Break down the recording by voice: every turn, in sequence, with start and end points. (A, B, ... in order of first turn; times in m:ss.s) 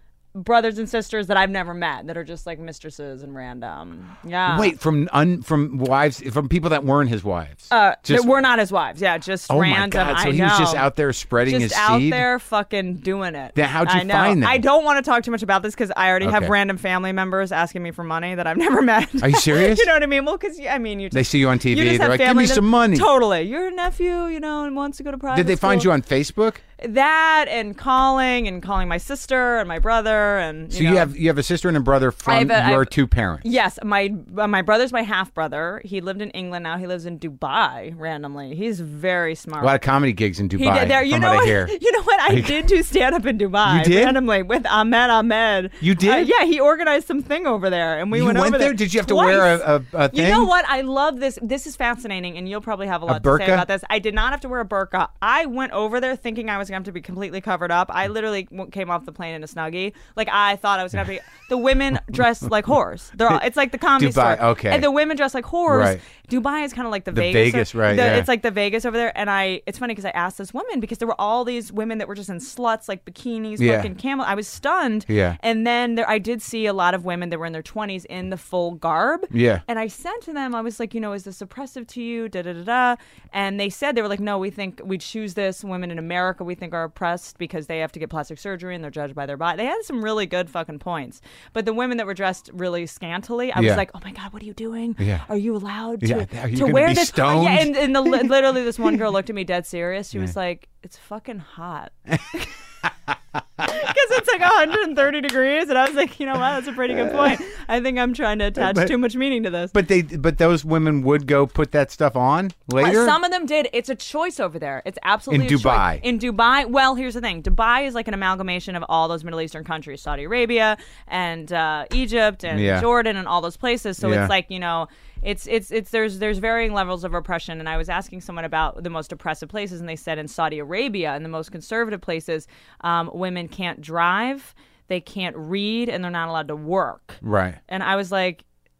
0:00.4-0:04.7 A
0:04.5-0:08.4 B
0:07.7-0:10.9 A
0:09.5-0:12.2 B
0:11.4-0:25.9 A
0:13.6-0:14.6 B
0:16.2-0:16.5 B
0:19.2-0:19.9 B
0:21.1-0:23.1 B
0:25.3-0:26.6 B
0:26.8-0:31.1 A
0:30.7-0:33.4 B
0:32.2-0:39.8 A
0:39.6-0:41.7 B
0:40.6-1:42.5 A
0:42.3-0:42.7 B
0:43.6-0:44.2 B
0:45.8-0:46.3 B
0:48.1-0:50.5 B
0:53.1-0:53.6 B
1:04.0-1:04.9 B
1:05.7-1:06.0 B
1:07.1-1:08.3 B
1:13.6-1:13.9 B
1:15.1-1:15.4 B
1:19.3-1:19.6 B
1:33.6-1:33.8 B
1:35.0-1:35.2 B
1:36.0-1:38.4 B
1:43.6-1:49.8 A
1:48.6-1:48.9 B
1:49.7-1:53.2 B
1:52.8-2:18.4 A
1:55.3-1:56.0 B
2:02.5-2:02.9 B
2:04.0-2:04.3 B
2:17.2-2:17.6 B